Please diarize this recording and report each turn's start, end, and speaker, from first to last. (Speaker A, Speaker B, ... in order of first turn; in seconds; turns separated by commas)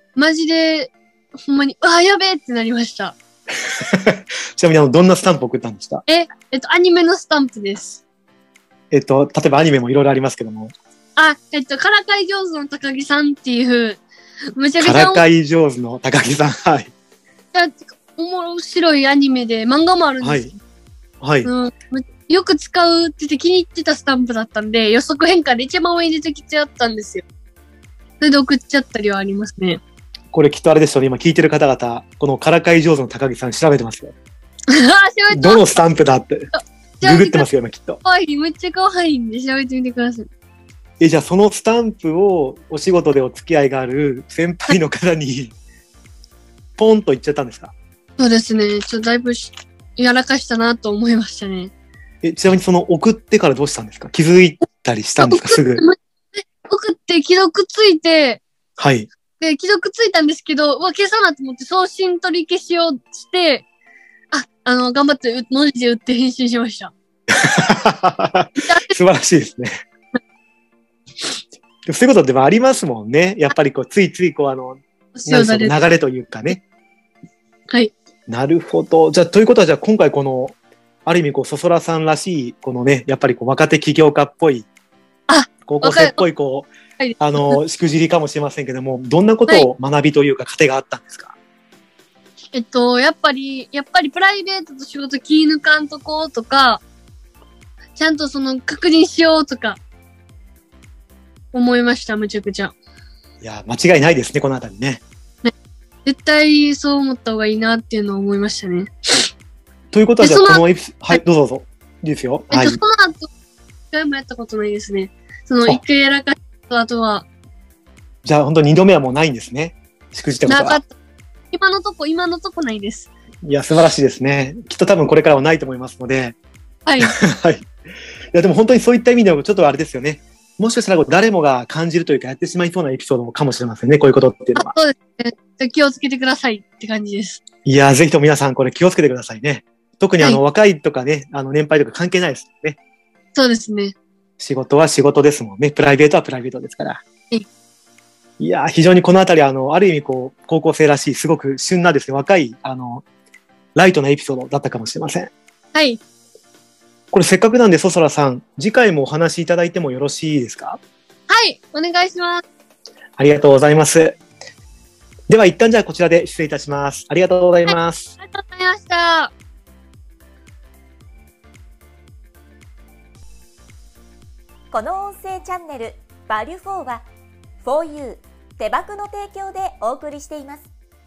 Speaker A: 0.1-0.9, Speaker A: 1.4-3.1, Speaker B: 3.5-6.0, Speaker A: 6.1-8.0, Speaker B: 8.9-10.7, Speaker A: 11.2-14.0, Speaker A: 14.6-15.2, Speaker B: 14.8-16.9, Speaker A: 17.5-20.5, Speaker B: 20.2-20.5, Speaker B: 21.2-21.5, Speaker A: 21.4-27.2, Speaker A: 28.2-29.8, Speaker B: 30.3-34.1, Speaker A: 34.7-35.6, Speaker B: 35.3-36.5, Speaker A: 36.5-37.5, Speaker B: 37.0-38.0, Speaker A: 38.0-40.3, Speaker B: 41.0-45.5, Speaker B: 46.8-47.7, Speaker A: 48.2-51.7, Speaker B: 52.2-55.8, Speaker A: 55.2-58.4, Speaker B: 58.8-59.1, Speaker A: 59.4-63.6, Speaker A: 64.3-66.9, Speaker B: 67.3-69.7, Speaker A: 68.6-68.9, Speaker B: 71.8-76.6, Speaker A: 75.2-75.7, Speaker B: 78.3-84.7, Speaker A: 85.3-86.2, Speaker B: 85.7-91.3, Speaker A: 87.0-87.6, Speaker A: 92.5-96.8, Speaker A: 98.0-99.8, Speaker A: 101.5-102.7, Speaker B: 103.4-105.0, Speaker A: 106.0-108.9, Speaker B: 109.9-112.8, Speaker A: 110.2-111.2, Speaker A: 112.5-113.3, Speaker A: 113.9-117.2, Speaker B: 118.2-120.8, Speaker A: 120.5-120.9, Speaker A: 121.5-123.1, Speaker B: 123.4-126.4, Speaker A: 126.8-127.1, Speaker B: 127.0-127.7, Speaker B: 128.3-134.7, Speaker A: 134.6-137.4, Speaker B: 137.6-142.8, Speaker A: 143.3-143.9, Speaker B: 144.4-147.0, Speaker B: 148.4-153.0, Speaker B: 153.7-155.3, Speaker A: 155.7-156.0, Speaker B: 157.1-160.8, Speaker A: 161.3-162.4, Speaker B: 163.2-164.2, Speaker B: 165.3-168.1, Speaker A: 167.7-169.3, Speaker C: 174.7-177.1, Speaker C: 177.6-180.7